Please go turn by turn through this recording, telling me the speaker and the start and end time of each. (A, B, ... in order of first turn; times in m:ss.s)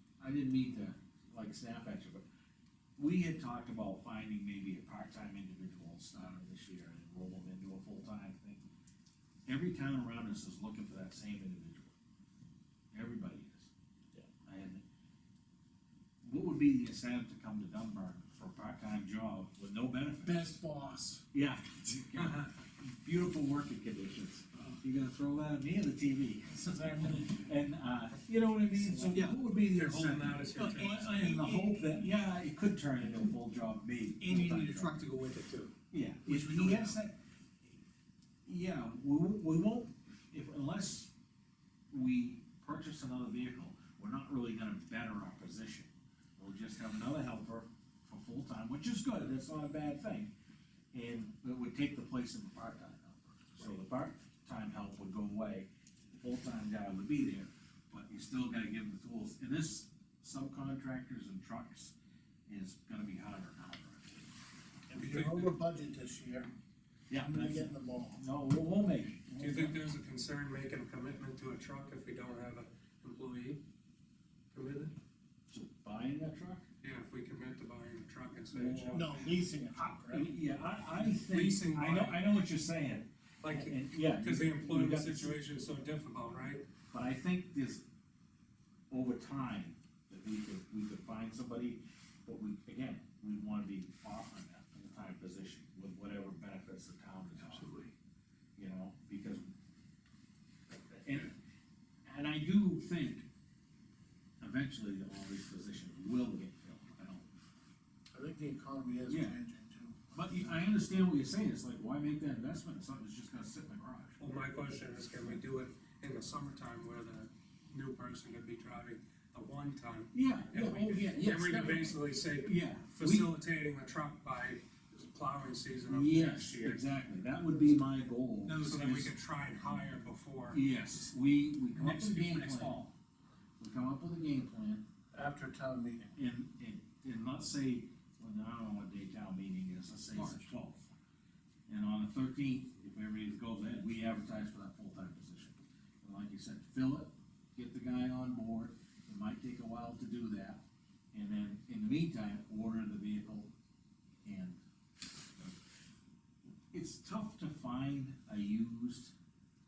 0:00.2-0:02.2 A
0:03.0-0:08.6 A
0:09.5-0:11.9 A
0:12.9-0:13.7 A
0:14.4-0:14.8 A
0:16.2-0:20.5 A
0:20.2-0:21.2 B
0:21.3-0:35.0 A
0:26.5-0:27.3 B
0:28.7-0:29.3 B
0:29.7-0:31.1 C
0:30.6-0:31.6 D
0:34.2-0:35.7 D
0:35.9-0:37.1 A
0:36.3-0:37.0 B
0:38.4-0:41.1 A
0:41.9-0:50.3 A
0:50.9-1:01.9 A
1:02.5-1:04.3 A
1:04.9-1:06.5 B
1:04.9-1:05.5 C
1:07.1-1:09.8 A
1:07.1-1:08.2 B
1:09.4-1:13.6 C
1:14.5-1:14.9 C
1:15.5-1:16.6 A
1:16.8-1:19.1 C
1:18.5-1:19.3 A
1:18.9-1:20.5 B
1:20.0-1:25.4 A
1:20.9-1:22.2 C
1:23.4-1:26.6 C
1:26.9-1:27.8 A
1:28.9-1:37.7 A
1:38.6-1:39.4 A
1:40.7-1:41.3 A
1:42.0-1:43.3 A
1:44.4-1:47.3 A
1:48.1-1:50.6 B
1:49.1-1:49.4 A
1:50.1-1:54.2 A
1:54.2-2:06.8 C
2:00.1-2:03.3 A
2:05.9-2:09.0 A
2:08.4-2:09.1 D
2:08.6-2:10.6 C
2:10.5-2:12.9 A
2:11.8-2:12.7 D
2:13.6-2:14.8 A
2:15.1-2:16.2 B
2:16.2-2:20.9 A
2:21.7-2:30.6 A
2:31.1-2:33.5 A
2:34.2-2:34.6 A
2:36.7-2:39.1 A